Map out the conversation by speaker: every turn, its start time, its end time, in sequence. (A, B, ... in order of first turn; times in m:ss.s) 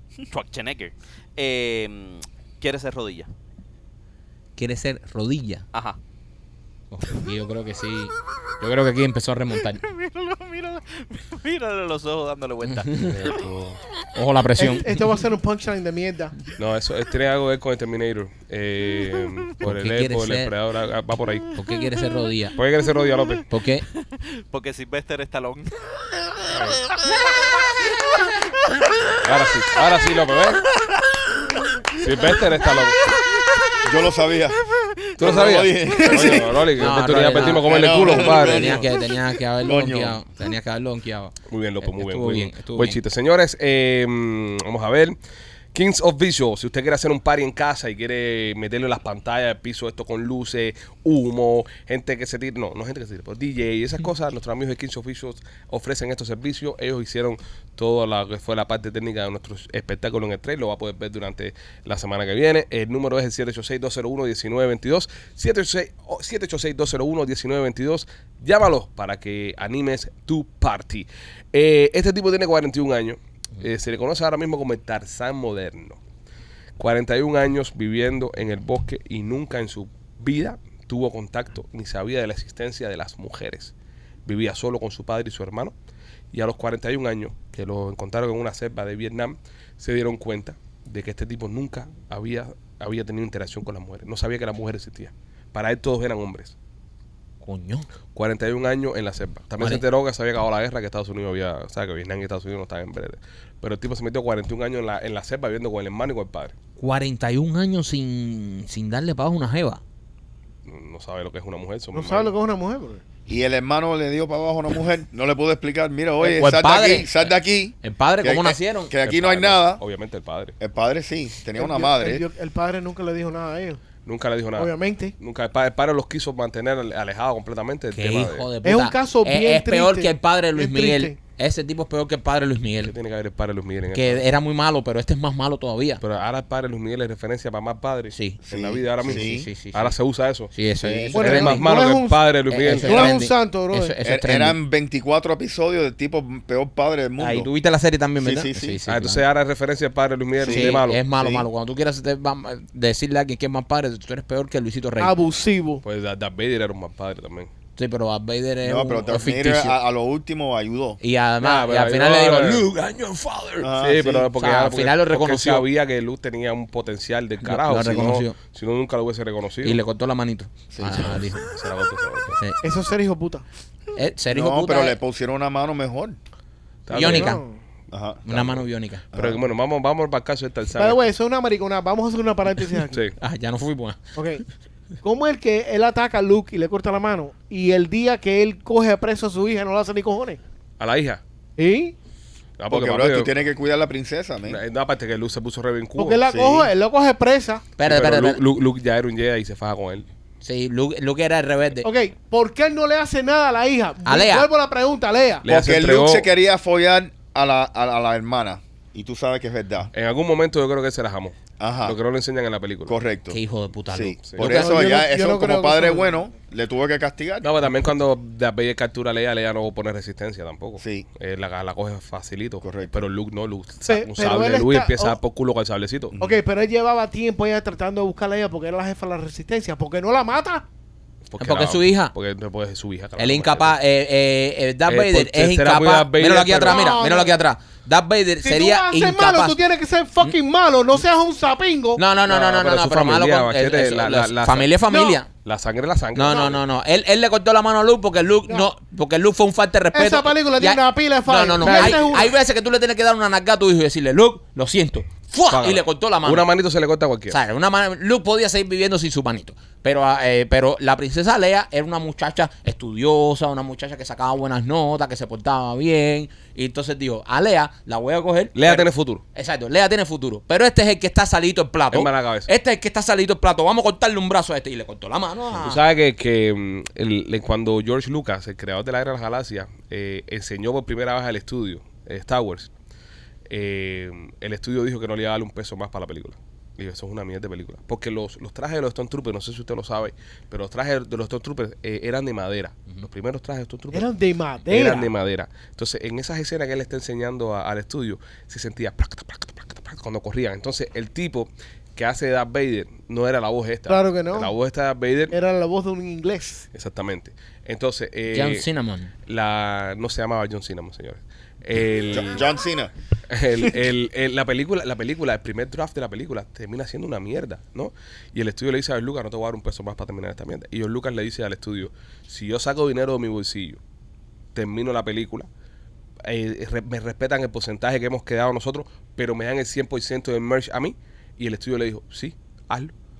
0:00.3-0:03.3 A
0:04.6-0:05.6 B
0:05.7-0:06.0 A
0:06.9-0:09.8 B
0:09.6-0:13.4 A
0:12.8-0:13.3 B
0:13.0-0:13.8 C
0:14.1-0:15.0 B
0:14.6-0:16.3 D
0:16.6-0:21.5 C
0:19.2-0:19.4 A
0:19.6-0:20.5 B
0:21.5-0:22.6 B
0:21.6-0:22.3 A
0:22.6-0:23.5 C
0:23.0-0:23.4 A
0:23.5-0:23.8 B
0:23.9-0:25.7 A
0:26.5-0:26.8 C
0:29.2-0:30.7 C
0:32.0-0:33.1 C
0:33.8-0:34.6 E
0:35.2-0:36.7 E
0:35.2-0:38.8 C
0:36.7-0:43.0 B
0:37.6-0:39.0 E
0:39.6-0:40.2 E
0:41.5-0:45.2 C
0:45.7-1:16.0 C
1:16.8-1:23.7 C
1:24.2-1:25.7 C
1:26.3-1:36.5 C
1:37.4-1:37.9 B
1:38.1-1:46.5 C
1:46.8-1:49.8 B
1:50.7-1:52.3 C
1:51.9-1:53.0 D
1:53.3-1:59.8 E
1:56.2-1:57.3 B
1:57.8-1:58.9 B
1:59.0-2:00.5 C
2:00.6-2:02.2 E
2:01.6-2:03.8 D
2:04.0-2:08.4 C
2:04.6-2:05.1 D
2:07.9-2:12.9 B
2:08.6-2:11.2 D
2:12.8-2:14.2 C
2:13.9-2:16.0 B
2:16.0-2:20.5 C
2:18.1-2:18.4 B
2:18.4-2:19.5 E
2:19.0-2:19.9 B
2:20.5-2:21.6 B
2:20.8-2:21.2 E
2:21.1-2:22.2 D
2:21.2-2:23.1 C
2:22.5-2:24.6 B
2:22.7-2:24.0 D
2:24.0-2:27.5 E
2:27.2-2:29.2 B
2:28.2-2:28.8 E
2:28.9-2:31.0 C
2:30.4-2:31.5 E
2:30.4-2:35.2 B
2:35.0-2:35.8 D
2:35.8-2:37.5 C
2:37.8-2:39.7 B
2:38.6-2:41.0 E
2:41.0-2:43.7 B
2:41.4-2:42.7 C
2:43.6-2:44.3 E
2:43.8-2:49.8 C
2:44.3-2:45.6 B
2:47.4-2:48.4 B
2:49.6-2:51.5 B
2:50.7-2:51.2 E
2:51.0-2:52.4 C
2:52.6-2:53.4 D
2:53.9-2:55.0 B
2:54.3-2:56.2 E
2:56.8-2:57.4 C
2:56.9-2:57.4 B
2:57.0-2:57.6 D
2:57.9-2:59.4 E
2:58.2-2:59.1 B
2:59.1-3:01.0 C
3:00.8-3:03.1 D
3:02.9-3:03.1 C
3:03.2-3:04.0 B
3:04.2-3:04.4 D
3:05.0-3:10.4 D
3:10.8-3:11.2 C
3:11.6-3:11.9 D
3:12.6-3:13.3 C
3:12.7-3:14.6 E
3:14.4-3:16.2 C
3:16.0-3:17.7 D
3:16.3-3:16.7 E
3:17.8-3:18.4 B
3:17.8-3:20.0 C
3:20.4-3:21.9 B
3:21.8-3:25.4 D
3:24.0-3:24.5 B
3:25.4-3:26.3 C
3:25.4-3:29.9 E
3:29.9-3:33.0 C
3:31.6-3:32.0 E
3:32.9-3:37.7 E
3:33.3-3:34.2 B
3:34.2-3:34.7 C
3:34.4-3:36.2 D
3:37.4-3:46.1 C
3:40.8-3:41.0 E
3:42.6-3:43.0 E
3:43.9-3:45.2 D
3:46.1-3:46.4 E
3:46.2-3:50.6 D
3:51.3-3:53.7 C
3:51.4-3:52.1 B
3:53.2-3:59.6 B
3:54.9-3:56.9 C
3:56.6-3:57.4 D
3:58.4-4:02.0 D
4:02.0-4:05.3 B
4:02.2-4:04.7 C
4:04.9-4:05.2 D
4:05.4-4:06.6 C
4:06.1-4:16.5 B
4:09.9-4:12.3 D
4:11.6-4:12.1 C
4:15.5-4:17.4 C
4:17.3-4:35.8 B
4:28.5-4:29.2 C
4:31.9-4:32.5 C
4:35.5-4:42.7 C
4:43.5-4:54.1 C
4:53.9-4:55.1 D
4:54.6-5:05.4 C
5:03.9-5:04.5 D
5:05.3-5:06.6 D
5:06.7-5:08.6 C
5:08.3-5:09.1 B
5:09.3-5:12.4 C
5:12.1-5:12.9 E
5:13.3-5:23.8 C
5:24.5-5:25.5 C
5:26.2-5:32.9 C